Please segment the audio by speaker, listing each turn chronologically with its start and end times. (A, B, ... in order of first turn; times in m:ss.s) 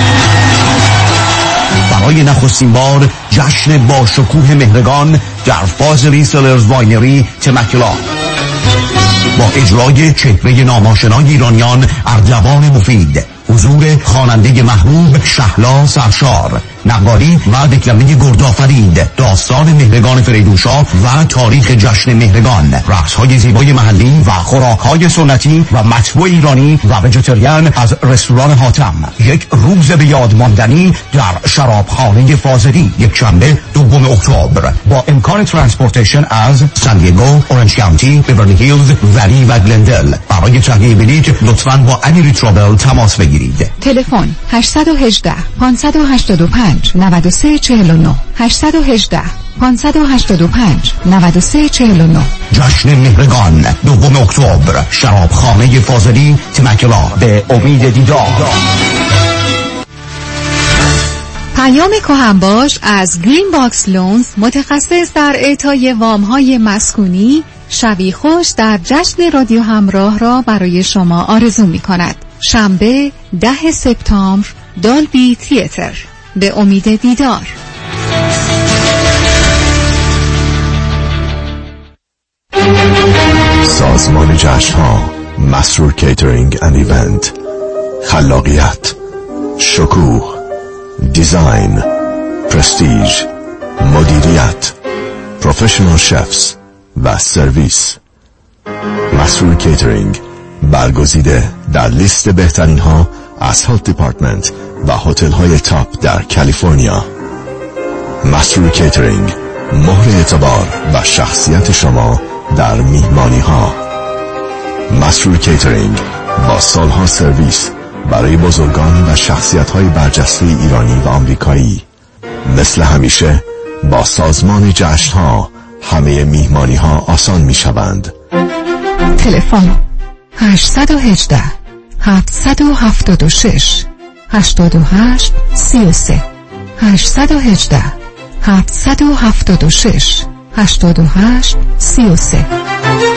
0:01.9-0:08.1 A
0:09.3-0:43.7 A
0:43.8-0:52.3 B
0:52.5-0:58.6 A
1:01.5-1:17.6 B
1:23.6-1:27.3 C
1:28.0-1:29.0 C
1:29.6-1:30.4 C
1:31.0-1:31.9 C
1:32.5-1:33.3 C
1:33.8-1:34.7 C
1:35.4-1:38.0 C
1:39.1-1:47.1 C
1:48.2-1:53.8 C
1:54.9-2:01.8 C
2:02.4-2:08.1 C
2:09.2-2:09.8 B
2:10.4-2:16.2 B
2:16.8-2:22.5 B